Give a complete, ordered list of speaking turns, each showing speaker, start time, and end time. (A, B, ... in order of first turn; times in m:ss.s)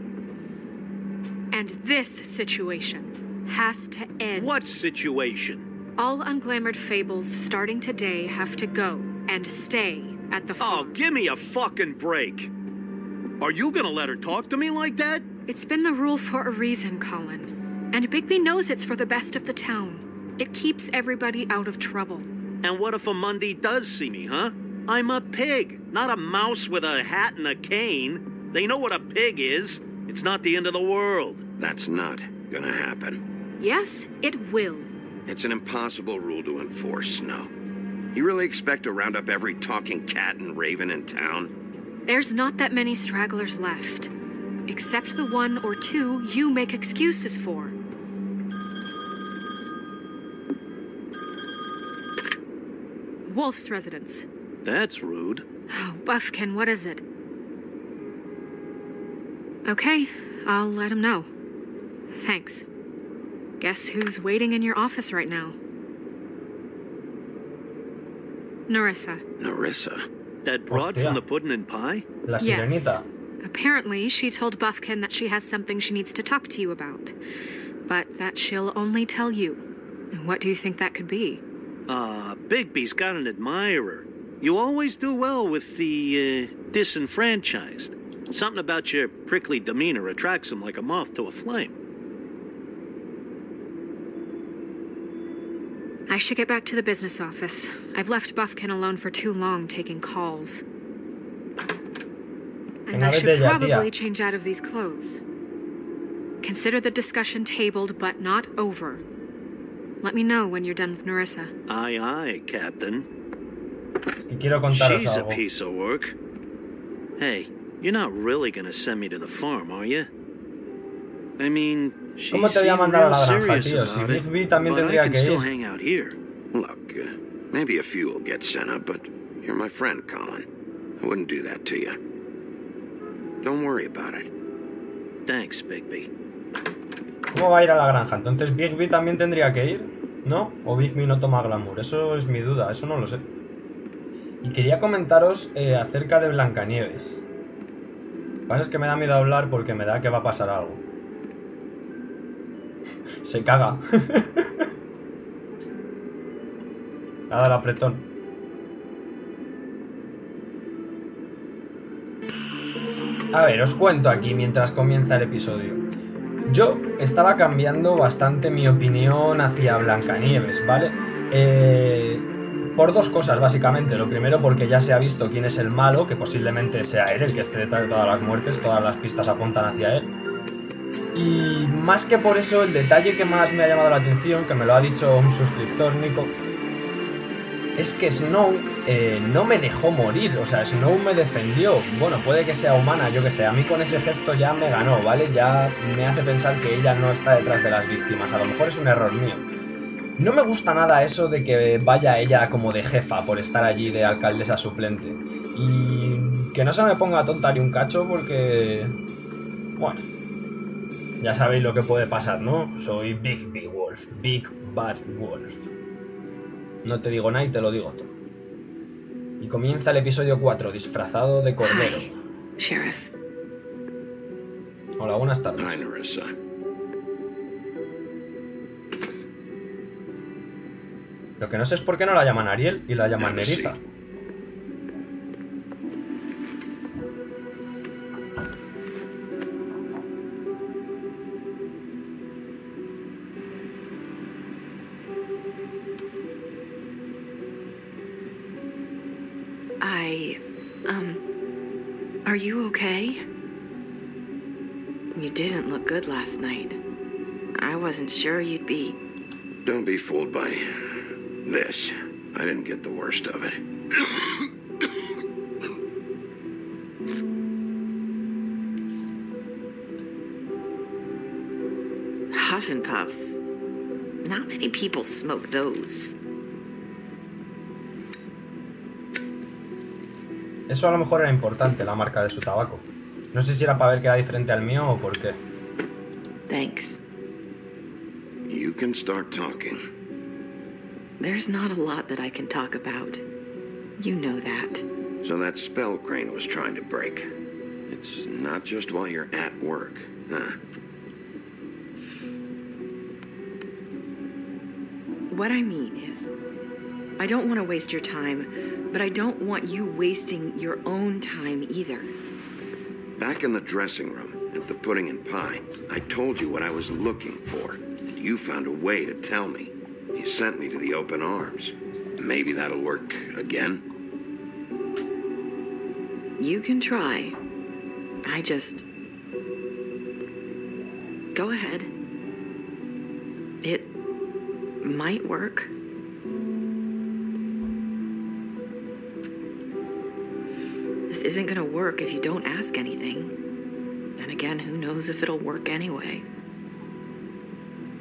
0:01.5-0:04.5 A
0:04.4-0:05.7 B
0:06.0-0:11.0 A
0:10.6-0:12.5 B
0:13.4-0:15.3 B
0:15.5-0:22.3 A
0:22.6-0:31.4 B
0:31.6-0:33.2 C
0:33.6-0:34.9 A
0:35.3-0:37.5 C
0:38.1-0:41.5 C
0:42.1-0:44.1 A
0:44.7-0:47.8 A
0:53.3-0:54.3 A
0:54.6-0:55.4 B
0:55.7-0:57.0 A
0:59.7-1:01.3 A
1:02.1-1:02.6 A
1:03.6-1:05.6 A
1:08.7-1:09.2 A
1:09.4-1:10.1 C
1:10.4-1:12.0 B
1:10.7-1:11.2 D
1:12.3-1:13.0 D
1:12.4-1:17.2 A
1:17.9-1:21.4 A
1:21.9-1:31.8 B
1:36.1-1:40.6 A
1:42.9-1:45.2 A
1:42.9-1:43.9 D
1:46.4-1:49.0 A
1:50.0-1:51.5 A
1:51.7-1:53.1 B
1:54.2-1:55.4 D
1:54.7-1:56.2 B
1:57.2-2:00.1 B
2:01.4-2:06.2 B
2:02.3-2:05.5 D
2:06.5-2:10.5 C
2:11.0-2:12.0 C
2:13.4-2:14.3 C
2:15.3-2:16.1 B
2:17.3-2:23.2 D
2:24.4-2:27.2 D
2:28.5-2:30.8 D
2:33.2-2:34.7 D
2:37.3-2:38.1 D
2:43.3-2:45.8 D
2:46.5-3:00.1 D
3:01.1-3:06.4 D
3:07.8-3:19.5 D
3:20.2-3:29.0 D
3:29.8-3:30.1 D
3:31.2-3:35.6 D
3:36.8-3:38.1 D
3:39.4-3:42.1 D
3:41.6-3:43.1 E
3:45.0-3:45.8 D
3:45.6-3:46.3 C
3:51.4-3:53.8 D
3:53.2-3:53.7 C
4:09.8-4:11.2 E
4:12.2-4:13.2 E
4:15.2-4:16.8 E
4:17.6-4:19.0 E
4:19.6-4:24.5 C
4:32.3-4:33.4 E
4:34.2-4:36.1 E
4:40.7-4:45.4 D
4:46.5-4:47.0 E
4:48.5-4:49.8 C
4:51.2-4:53.2 E
4:54.0-4:54.9 E
4:55.2-4:57.3 C
4:57.9-5:00.6 C
5:05.3-5:06.3 E
5:07.2-5:12.1 E
5:13.2-5:23.8 C
5:26.4-5:27.4 E
5:28.2-5:28.8 E
5:31.3-5:31.9 E
5:33.6-5:33.9 E
5:34.8-5:35.7 E
5:41.1-5:43.4 E
5:44.2-5:46.2 E